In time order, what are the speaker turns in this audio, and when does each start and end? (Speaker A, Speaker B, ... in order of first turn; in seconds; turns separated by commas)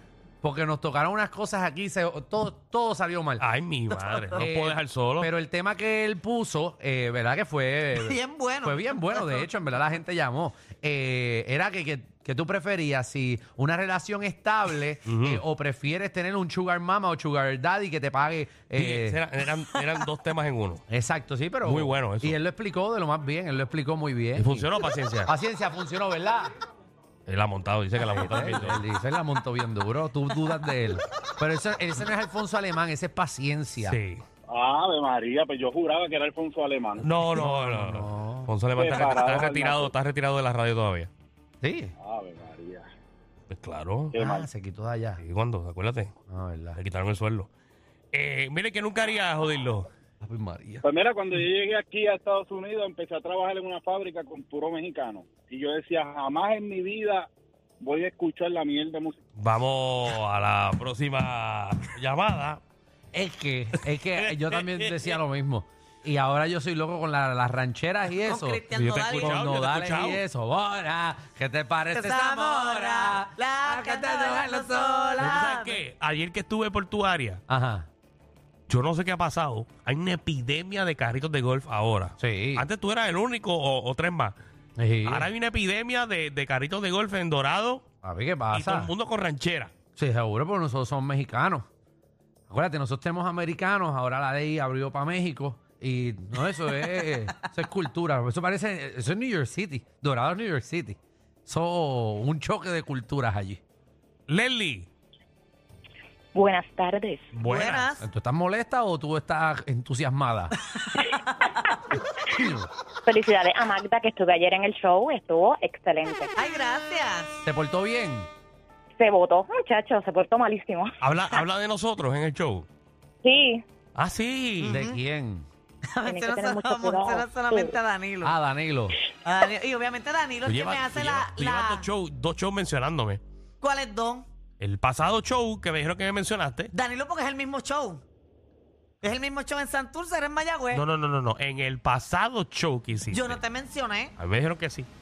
Speaker A: 0.4-3.4, Speaker B: 3.4-5.3, Speaker C: 3.9-4.5, Speaker A: 4.3-19.2, Speaker C: 8.0-9.5, Speaker B: 15.1-15.4, Speaker B: 18.7-20.8, Speaker A: 20.9-24.7, Speaker B: 21.6-22.4, Speaker B: 24.4-25.3, Speaker A: 25.2-26.5, Speaker B: 27.3-28.8, Speaker A: 28.0-34.0, Speaker B: 33.8-34.2, Speaker D: 34.5-37.2, Speaker B: 37.0-41.1, Speaker A: 37.4-38.5, Speaker D: 38.7-39.9, Speaker A: 41.6-41.9, Speaker D: 42.0-42.9, Speaker B: 43.5-44.1, Speaker D: 44.1-44.5, Speaker A: 44.1-45.2, Speaker B: 45.2-46.1, Speaker A: 46.3-46.8, Speaker B: 46.8-47.5, Speaker B: 48.1-49.9, Speaker A: 50.2-50.8, Speaker D: 50.8-57.3, Speaker D: 57.8-59.2, Speaker B: 59.4-62.6, Speaker A: 63.1-75.5, Speaker B: 64.2-65.2, Speaker C: 68.2-69.4, Speaker B: 68.7-70.2, Speaker C: 71.9-75.8, Speaker B: 75.2-77.4, Speaker A: 77.5-77.9, Speaker B: 78.7-84.3, Speaker A: 82.2-82.7, Speaker A: 84.8-85.3, Speaker B: 85.0-87.8, Speaker A: 88.0-88.9, Speaker B: 88.5-89.7, Speaker A: 90.0-91.7, Speaker A: 92.5-103.6, Speaker B: 104.3-104.9, Speaker E: 106.3-107.3, Speaker B: 107.3-107.9, Speaker C: 107.4-108.0, Speaker A: 108.0-110.5, Speaker A: 112.4-112.7, Speaker E: 113.0-116.3, Speaker C: 116.3-117.4, Speaker A: 117.4-118.3, Speaker E: 119.0-120.9, Speaker B: 121.0-122.7, Speaker E: 123.2-123.6, Speaker B: 124.0-124.8, Speaker C: 124.6-125.0, Speaker A: 124.7-125.5, Speaker C: 125.9-128.3, Speaker E: 126.0-127.8, Speaker A: 128.2-128.9, Speaker C: 129.2-131.8, Speaker B: 130.4-133.2, Speaker C: 133.6-134.3, Speaker B: 134.6-136.7, Speaker C: 136.7-138.0, Speaker C: 139.0-140.8, Speaker B: 140.7-143.4, Speaker C: 143.1-144.1, Speaker B: 144.2-144.9